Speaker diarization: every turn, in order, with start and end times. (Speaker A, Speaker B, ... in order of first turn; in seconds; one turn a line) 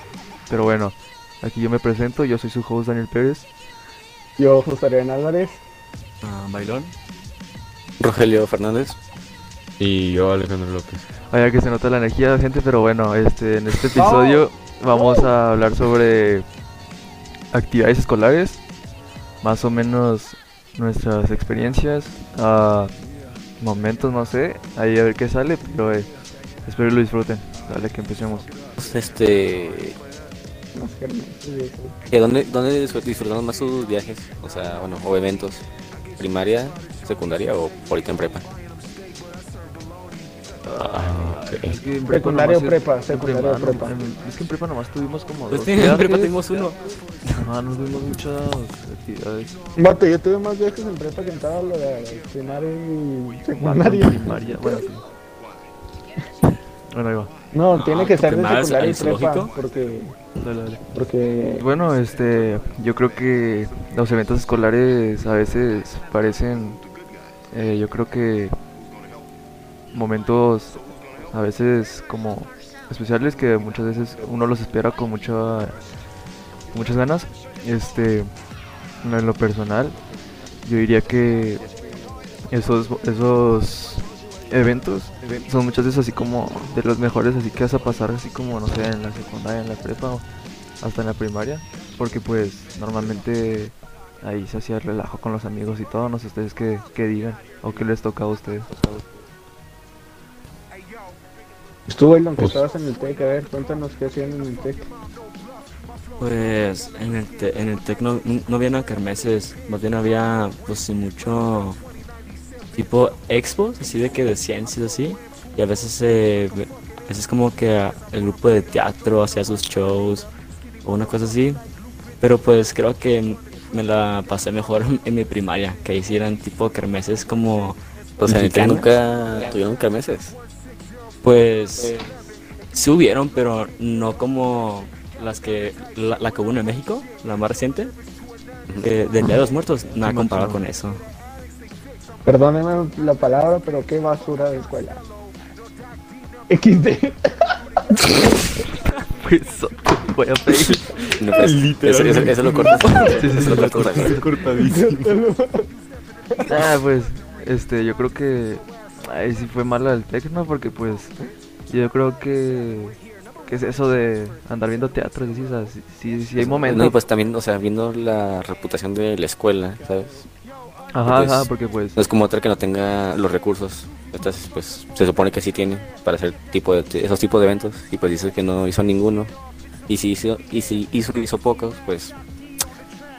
Speaker A: 0.5-3.5
Speaker B: 4.4-5.6
Speaker C: 6.2-6.9
Speaker D: 8.0-9.0
Speaker E: 9.8-11.0
Speaker A: 11.3-16.4
Speaker B: 13.9-15.3
Speaker A: 17.5-18.6
Speaker A: 19.4-22.9
Speaker A: 23.6-26.1
Speaker A: 26.6-28.5
Speaker D: 28.8-30.0
Speaker B: 30.7-31.9
Speaker D: 32.1-35.6
Speaker D: 36.2-38.5
Speaker A: 40.7-46.4
Speaker E: 40.7-41.8
Speaker B: 42.0-43.9
Speaker C: 45.5-46.8
Speaker A: 47.4-49.6
Speaker B: 49.8-54.8
Speaker A: 53.5-55.0
Speaker A: 56.9-57.3
Speaker B: 57.5-60.2
Speaker C: 57.7-59.5
Speaker A: 60.4-60.8
Speaker B: 60.9-61.6
Speaker A: 61.6-66.8
Speaker A: 67.5-68.5
Speaker A: 69.9-70.8
Speaker A: 71.3-75.8
Speaker A: 76.7-78.3
Speaker A: 79.0-80.0
Speaker A: 80.6-81.6
Speaker A: 82.5-90.2
Speaker A: 90.8-98.7
Speaker B: 101.9-104.9
Speaker C: 106.2-111.8
Speaker C: 112.7-120.3
Speaker C: 120.8-121.6
Speaker C: 122.2-129.5
Speaker D: 128.2-130.3
Speaker C: 131.2-132.0
Speaker C: 132.7-137.9
Speaker C: 138.8-141.0
Speaker A: 140.0-140.6
Speaker B: 142.2-145.0
Speaker B: 146.5-148.2
Speaker A: 149.1-151.1
Speaker D: 151.2-154.2
Speaker E: 151.3-155.2
Speaker A: 152.8-154.2
Speaker B: 154.5-155.7
Speaker B: 156.3-156.7
Speaker A: 156.5-161.1
Speaker A: 161.7-167.0
Speaker D: 166.4-170.2
Speaker A: 170.9-172.0
Speaker D: 171.0-179.3
Speaker D: 179.9-182.1